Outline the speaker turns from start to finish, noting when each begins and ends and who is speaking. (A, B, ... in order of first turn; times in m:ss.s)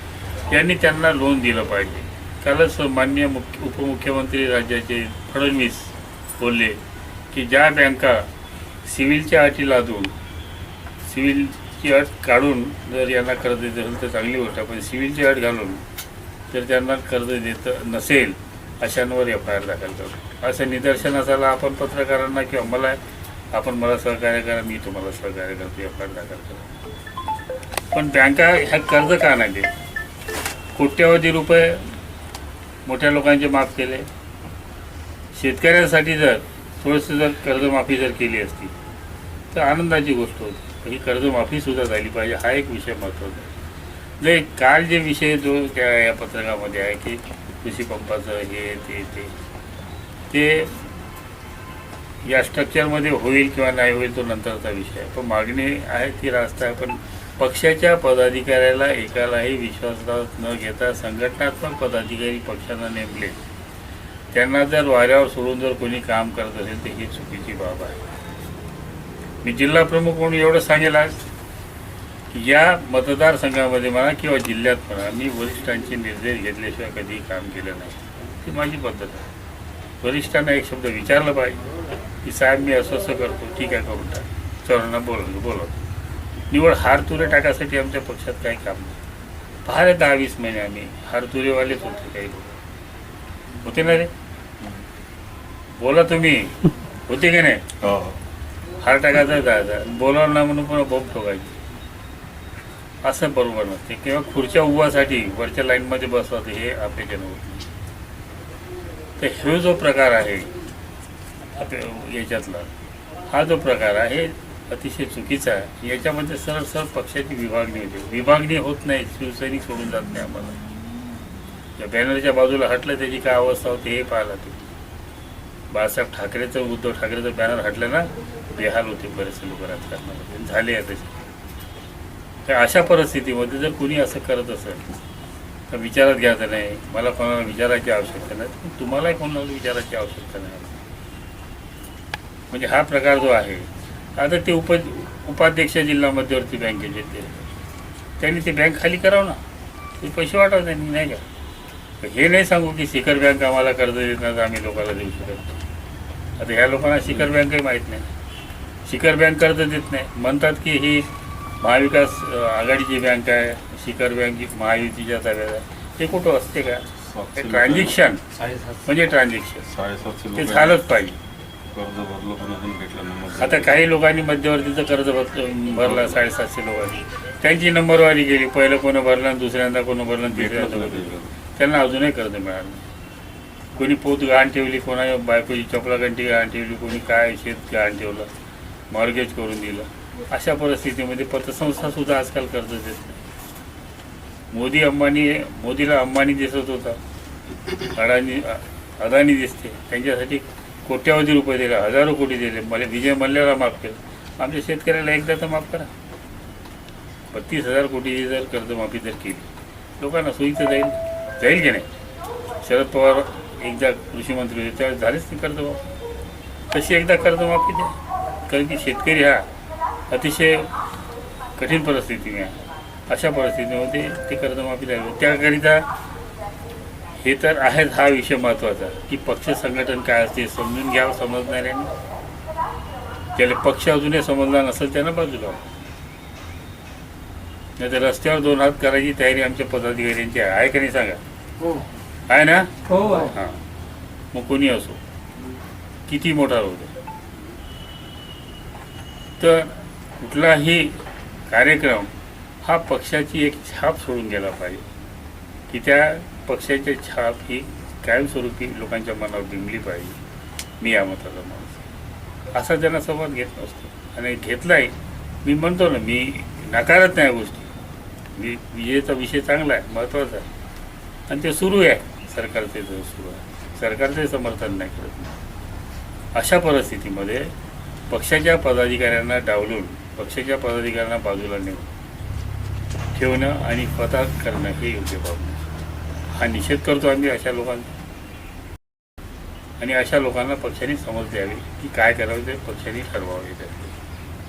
0:00.5-0:06.8 A
0:07.3-0:08.3 A
0:08.8-0:10.1 A
0:11.0-0:15.8 A
0:16.5-0:23.0 A
0:23.5-0:26.7 A
0:27.9-0:29.7 A
0:30.7-0:31.9 A
0:32.8-0:34.1 A
0:35.3-0:38.7 A
0:39.5-0:43.5 A
0:44.2-0:49.3 A
0:50.3-0:50.8 A
0:52.2-1:03.4 A
1:04.3-1:08.0 A
1:09.4-1:11.2 A
1:12.3-1:19.3 A
1:20.0-1:21.7 A
1:22.2-1:25.8 A
1:26.5-1:29.0 A
1:29.6-1:32.6 A
1:33.6-1:34.1 A
1:35.8-1:37.6 A
1:37.8-1:38.2 B
1:38.8-1:41.6 A
1:43.0-1:47.6 A
1:49.2-1:50.5 A
1:51.6-1:52.7 A
1:53.3-2:00.6 A
2:01.8-2:04.7 A
2:05.7-2:11.2 A
2:12.4-2:14.8 A
2:15.7-2:20.8 A
2:22.5-2:27.5 A
2:28.2-2:29.4 A
2:30.0-2:31.2 A
2:32.0-2:35.5 A
2:36.4-2:38.0 A
2:38.8-2:41.1 A
2:41.6-2:46.8 A
2:47.0-2:48.8 B
2:47.4-2:48.2 A
2:48.8-2:49.6 A
2:49.7-2:50.8 B
2:50.3-2:51.2 A
2:51.7-2:53.7 B
2:53.4-3:02.8 A
2:55.8-2:56.2 B
3:00.3-3:01.3 B
3:03.7-3:08.3 A
3:08.9-3:13.2 A
3:14.5-3:17.0 A
3:17.9-3:25.9 A
3:27.3-3:31.8 A
3:32.6-3:35.8 A
3:36.7-3:38.0 A
3:38.5-3:39.4 A
3:40.1-3:40.7 A
3:41.6-3:45.8 A
3:47.2-3:51.9 A
3:53.3-3:55.7 A
3:57.8-4:01.2 A
4:02.3-4:03.6 A
4:04.3-4:05.0 A
4:06.1-4:06.9 A
4:09.4-4:14.8 A
4:15.7-4:20.2 A
4:20.8-4:21.8 A
4:22.5-4:27.7 A
4:28.4-4:30.5 A
4:31.3-4:35.3 A
4:36.3-4:37.5 A
4:38.1-4:41.9 A
4:43.1-4:45.6 A
4:46.3-4:47.9 A
4:49.8-4:53.9 A